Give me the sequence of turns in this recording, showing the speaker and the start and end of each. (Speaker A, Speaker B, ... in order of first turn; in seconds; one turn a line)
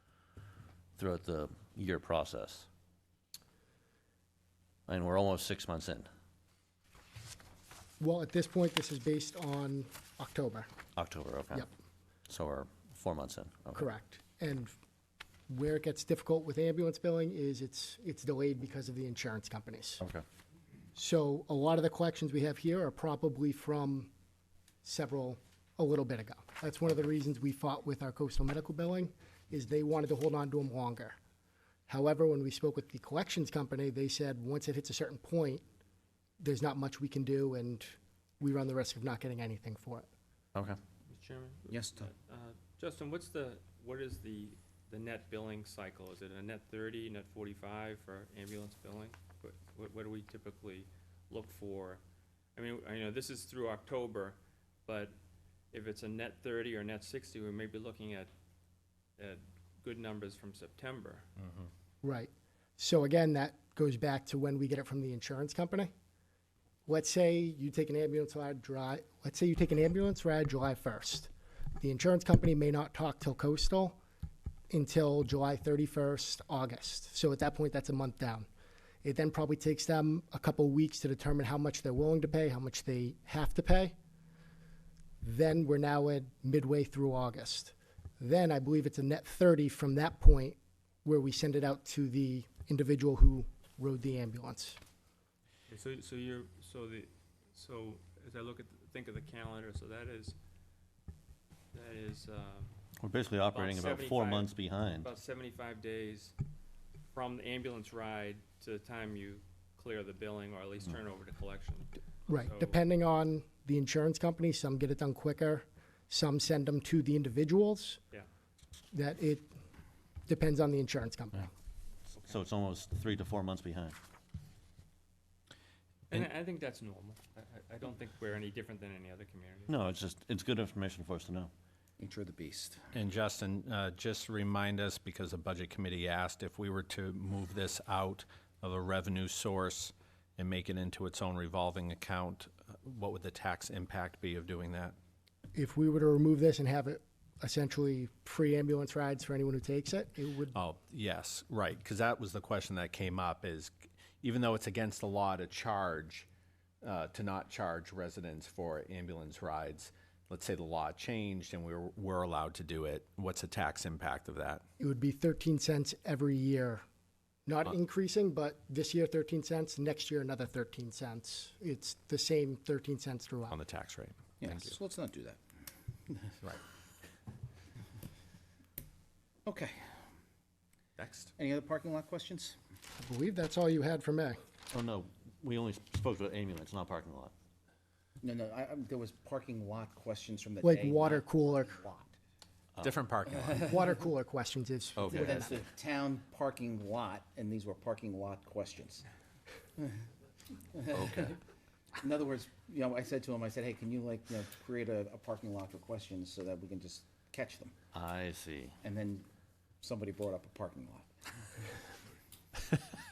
Speaker A: 1.0-2.7
Speaker A: 4.9-6.1
Speaker B: 8.0-10.7
Speaker A: 10.9-11.7
Speaker A: 12.3-13.9
Speaker B: 13.7-14.7
Speaker B: 15.5-20.0
Speaker B: 20.9-24.1
Speaker B: 24.8-31.1
Speaker B: 31.9-35.6
Speaker B: 36.4-40.1
Speaker C: 41.1-52.0
Speaker D: 41.7-42.1
Speaker C: 52.5-55.1
Speaker C: 55.7-58.3
Speaker C: 59.2-61.3
Speaker B: 62.0-65.9
Speaker B: 66.8-74.0
Speaker B: 74.7-78.5
Speaker B: 79.0-83.9
Speaker B: 85.2-94.8
Speaker C: 95.7-100.3
Speaker C: 101.7-102.7
Speaker A: 103.0-105.1
Speaker C: 103.4-106.3
Speaker C: 107.1-112.8
Speaker B: 112.3-118.0
Speaker B: 118.9-119.5
Speaker B: 120.3-121.5
Speaker A: 122.2-124.0
Speaker C: 126.1-129.7
Speaker A: 129.7-131.5
Speaker D: 132.0-132.9
Speaker E: 132.9-144.9
Speaker B: 145.5-150.5
Speaker E: 150.5-156.3
Speaker E: 156.8-164.6
Speaker B: 164.8-166.8
Speaker B: 167.4-173.6
Speaker E: 173.5-174.8
Speaker D: 174.4-175.4
Speaker D: 179.4-179.8
Speaker C: 181.0-181.3
Speaker D: 181.3-182.6
Speaker B: 183.0-184.4
Speaker A: 184.7-187.3
Speaker D: 188.2-192.1
Speaker B: 190.6-191.8
Speaker E: 192.8-193.7
Speaker B: 193.6-195.6
Speaker A: 195.0-195.2
Speaker D: 195.0-199.0
Speaker D: 200.7-201.2
Speaker A: 200.9-201.4
Speaker D: 202.0-207.7
Speaker A: 207.9-208.8
Speaker D: 208.8-209.3
Speaker D: 209.8-211.1